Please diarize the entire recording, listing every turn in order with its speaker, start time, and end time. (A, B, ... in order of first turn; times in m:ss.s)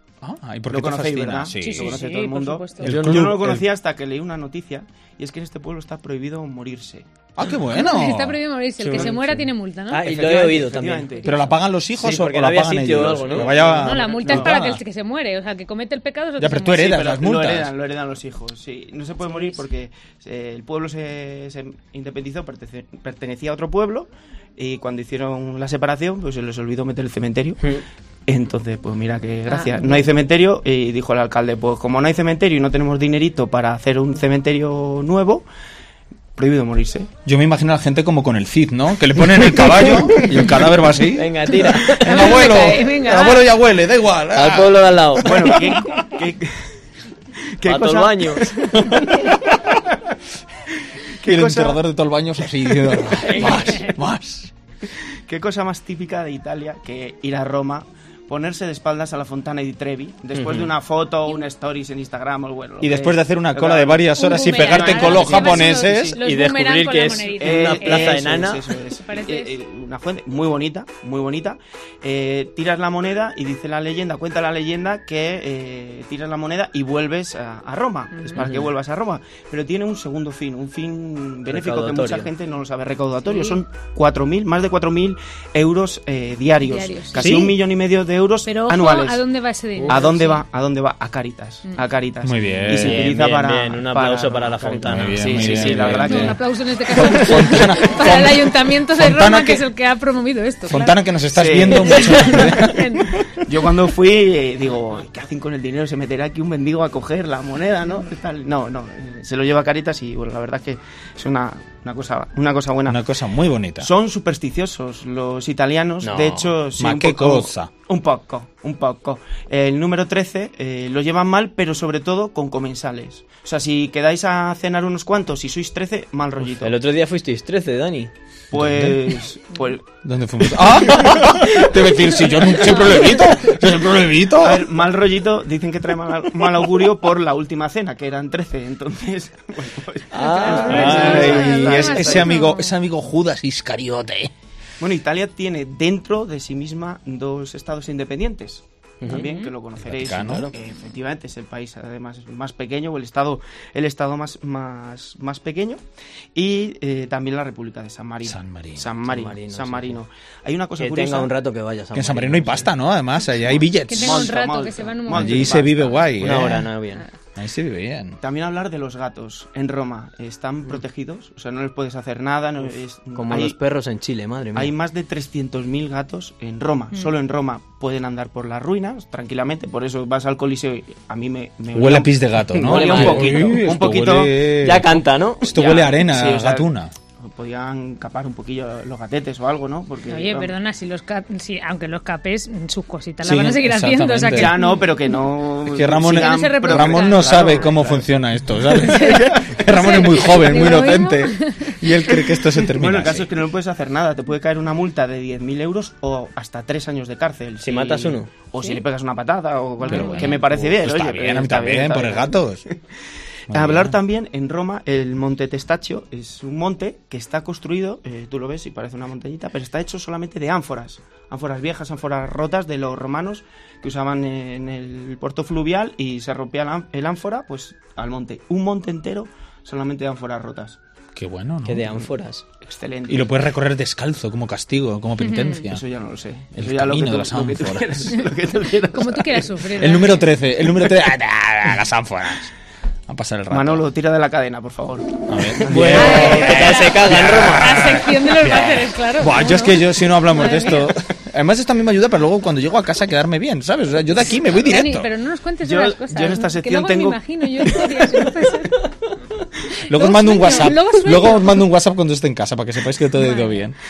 0:00.2-0:02.0 A
0:00.7-0:07.1 B
0:01.6-0:02.9 C
0:02.8-0:03.7 A
0:02.9-0:03.2 D
0:07.4-0:08.4 A
0:07.7-0:10.1 C
0:08.8-0:09.1 D
0:08.9-0:09.5 B
0:09.9-0:11.2 D
0:10.0-0:11.5 B
0:11.2-0:14.8 A
0:12.0-0:13.6 D
0:13.3-0:14.6 B
0:13.8-0:16.9 C
0:16.4-0:17.7 A
0:16.8-0:27.6 B
0:19.2-0:19.6 C
0:28.3-0:35.4 B
0:29.5-0:30.0 C
0:36.4-0:37.1 B
0:37.2-0:46.1 A
0:41.2-0:42.4 D
0:42.0-0:43.5 C
0:44.3-0:45.6 D
0:45.2-0:46.6 B
0:47.6-0:49.0 B
0:47.7-0:49.0 D
0:51.2-0:51.8 B
0:51.2-0:54.5 A
0:53.4-0:53.9 C
0:55.3-1:06.2 B
1:00.3-1:00.7 D
1:02.8-1:06.2 A
1:04.2-1:08.2 C
1:06.2-1:08.6 D
1:07.4-1:29.2 B
1:09.0-1:09.5 C
1:18.1-1:18.5 C
1:18.4-1:18.7 D
1:21.5-1:22.3 D
1:23.2-1:23.6 C
1:26.6-1:27.5 C
1:27.2-1:27.5 D
1:28.5-1:30.4 C
1:29.9-1:36.4 B
1:32.2-1:33.1 A
1:32.7-1:36.2 D
1:34.8-1:36.4 A
1:35.9-1:41.0 C
1:36.9-1:39.6 A
1:37.0-1:37.2 B
1:40.7-1:43.3 A
1:41.3-1:42.7 B
1:41.6-1:43.1 C
1:43.3-1:53.0 B
1:52.9-1:53.9 A
1:53.8-2:06.8 B
1:56.0-1:56.5 D
1:56.8-1:57.7 A
2:06.6-2:08.1 D
2:08.5-2:09.8 B
2:08.5-2:09.2 A
2:10.0-2:14.7 A
2:12.4-2:13.4 C
2:14.4-2:22.3 B
2:20.1-2:21.5 D
2:20.2-2:22.8 C
2:20.5-2:24.3 A
2:24.8-2:35.8 B
2:29.1-2:29.5 C
2:29.8-2:30.5 A
2:36.4-2:41.3 B
2:38.2-2:38.9 A
2:39.1-2:40.0 D
2:40.8-2:42.7 D
2:41.9-2:44.3 A
2:43.5-2:46.6 B
2:43.9-2:45.7 C
2:45.1-2:46.7 A
2:46.2-2:47.0 D
2:47.4-2:48.2 A
2:48.2-2:53.6 B
2:53.2-2:54.7 D
2:54.5-3:04.4 B
3:01.7-3:06.9 A
3:02.5-3:03.7 D
3:04.6-3:05.8 D
3:05.5-3:06.7 B
3:07.2-3:10.5 B
3:10.1-3:15.2 C
3:13.2-3:14.6 A
3:14.4-3:18.1 B
3:15.6-3:23.3 A
3:16.0-3:17.7 C
3:18.7-3:22.1 C
3:22.7-3:32.3 B
3:27.6-3:28.3 D
3:29.8-3:30.4 C
3:29.8-3:32.6 A
3:33.5-3:34.0 A
3:33.5-3:50.8 B
3:51.2-3:52.1 A
3:51.6-3:52.4 D
3:52.6-3:53.3 B
3:53.1-3:55.8 A
3:55.2-3:55.6 C
3:55.6-4:00.0 B
3:56.6-3:58.2 A
3:58.9-4:00.3 C
3:59.8-4:02.5 A
4:03.1-4:03.9 A
4:03.5-4:06.8 B
4:05.3-4:15.1 A
4:05.7-4:07.7 D
4:06.0-4:10.9 C
4:14.6-4:18.9 C
4:15.6-4:18.5 B
4:19.8-4:21.6 C
4:19.8-4:23.8 A
4:23.2-4:23.6 C